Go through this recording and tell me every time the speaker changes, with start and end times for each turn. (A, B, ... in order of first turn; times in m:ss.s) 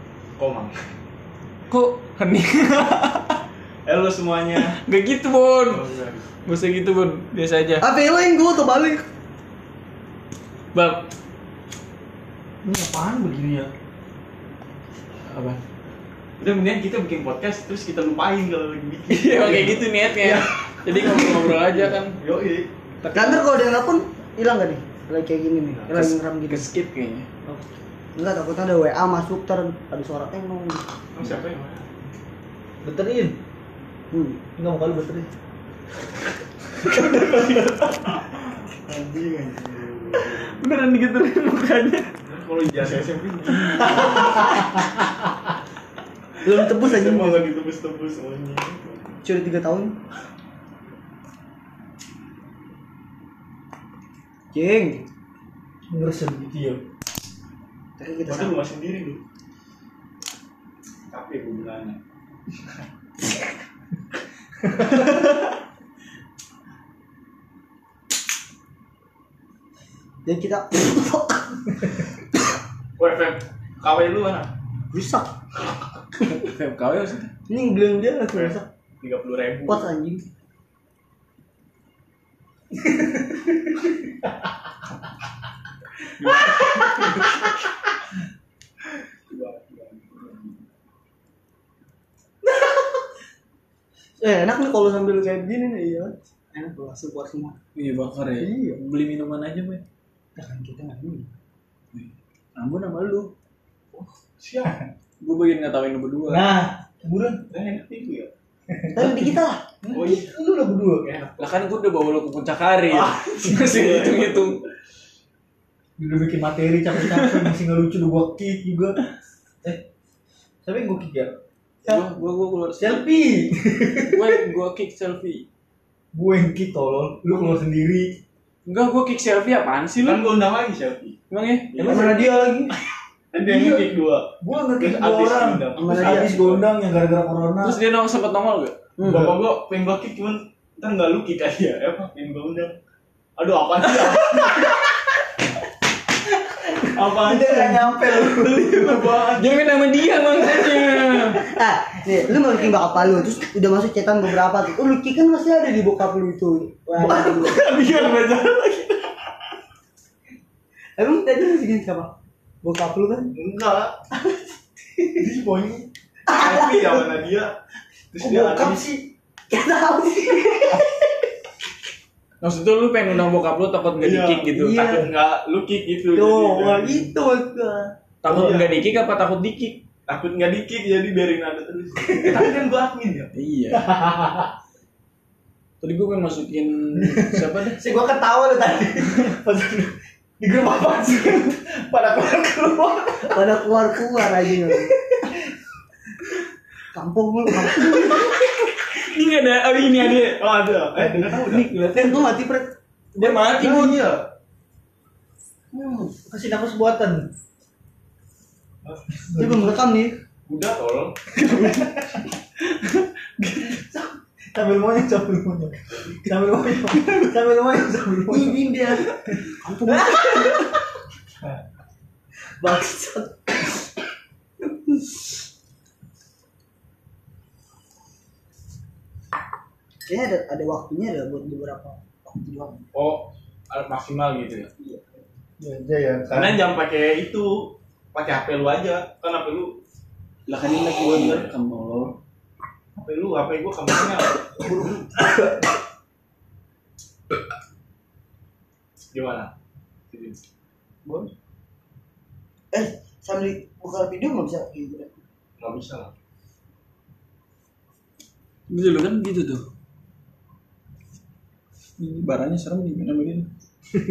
0:00.4-0:00.8 A
0:01.7-0:03.4 B
0:03.9-0:04.8 A
0:04.6-0:05.8 B
0:05.7-0:06.3 A
0:06.4-0:07.8 B
0:07.8-0:09.0 C
0:10.7-0:11.1 B
0:12.6-0:13.7 D
0:15.3-0:15.6 B
0:16.4-0:22.7 A
0:19.1-0:22.2 B
0:23.0-0:23.5 B
0:23.1-0:26.7 C
0:25.9-0:27.3 B
0:28.2-0:30.8 C
0:31.1-0:32.1 A
0:32.8-0:33.4 D
0:34.1-0:34.4 C
0:34.6-0:35.3 D
0:36.9-0:37.8 B
0:37.4-0:38.1 A
0:38.7-0:40.6 A
0:40.1-0:42.1 B
0:42.2-0:44.6 A
0:43.6-0:44.4 B
0:46.4-0:47.4 C
0:46.5-0:49.2 A
0:49.2-0:50.0 C
0:54.5-0:55.1 C
0:55.9-0:56.8 D
0:58.0-0:58.6 C
0:58.3-0:59.2 A
1:01.1-1:02.0 A
1:10.3-1:11.8 C
1:13.0-1:14.5 A
1:14.9-1:15.3 C
1:16.2-1:17.3 B
1:17.5-1:18.7 C
1:18.3-1:19.9 A
1:19.7-1:20.2 C
1:26.2-1:27.0 B
1:29.3-1:30.6 A
1:34.2-1:37.6 C
1:37.8-1:39.8 B
1:38.4-1:38.8 C
1:40.4-1:41.3 C
1:41.9-1:43.3 B
1:43.9-1:44.8 A
1:45.2-1:46.5 B
1:46.3-1:47.4 D
1:47.5-1:48.3 A
1:48.7-1:49.3 D
1:48.9-1:49.6 C
1:49.8-1:51.2 D
1:49.9-1:50.3 A
1:51.1-1:51.4 A
1:51.4-1:54.6 B
1:53.0-1:54.6 A
1:56.0-1:59.0 D
1:57.0-1:57.5 B
2:00.6-2:01.4 D
2:01.9-2:03.0 B
2:02.8-2:04.4 D
2:04.0-2:05.5 B
2:06.1-2:08.2 D
2:08.7-2:10.4 B
2:10.0-2:11.2 A
2:11.3-2:12.0 B
2:11.7-2:12.2 A
2:11.8-2:12.8 C
2:12.0-2:12.3 D
2:13.3-2:16.7 A
2:13.5-2:13.8 D
2:14.4-2:17.8 D
2:15.8-2:16.3 C
2:17.6-2:18.8 B
2:19.0-2:19.4 C
2:19.0-2:22.8 A
2:23.4-2:24.8 A
2:26.6-2:29.2 D
2:26.8-2:29.7 A
2:29.2-2:31.5 B
2:31.4-2:37.6 C
2:37.0-2:37.4 D
2:37.1-2:38.2 B
2:37.6-2:39.1 A
2:41.0-2:42.1 C
2:42.6-2:43.3 C
2:43.3-2:44.0 A
2:45.1-2:45.9 D
2:46.3-2:47.1 C
2:46.3-2:47.6 A
2:48.1-2:48.9 A
2:48.2-2:48.8 C
2:48.4-2:49.0 D
2:49.5-2:51.0 C
2:52.4-2:55.0 B
2:54.0-2:57.1 A
2:54.6-2:55.1 C
2:56.1-2:57.9 C
2:58.2-2:59.8 B
2:58.3-2:58.8 A
3:00.1-3:03.3 A
3:03.4-3:03.9 B
3:03.7-3:04.5 D
3:05.8-3:07.8 B
3:07.0-3:15.4 D
3:13.3-3:14.9 C
3:16.9-3:18.3 C
3:17.8-3:20.4 B
3:20.3-3:21.7 A
3:21.1-3:22.3 B
3:21.9-3:22.7 C
3:23.2-3:24.1 B
3:23.2-3:24.3 A
3:25.7-3:26.2 C
3:26.3-3:27.3 D
3:28.8-3:29.2 A
3:29.2-3:29.8 D
3:29.4-3:30.2 C
3:30.5-3:31.2 A
3:31.4-3:32.0 B
3:33.6-3:38.7 D
3:38.3-3:40.6 C
3:42.6-3:43.7 C
3:50.1-3:52.8 C
3:52.9-3:54.7 A
3:55.6-3:56.6 D
3:56.3-3:59.8 A
4:00.5-4:02.2 B
4:01.0-4:01.5 A
4:03.0-4:05.1 A
4:09.1-4:09.5 A
4:10.1-4:10.4 A
4:12.7-4:15.1 C
4:15.6-4:16.1 A
4:18.7-4:19.7 B
4:22.0-4:23.5 B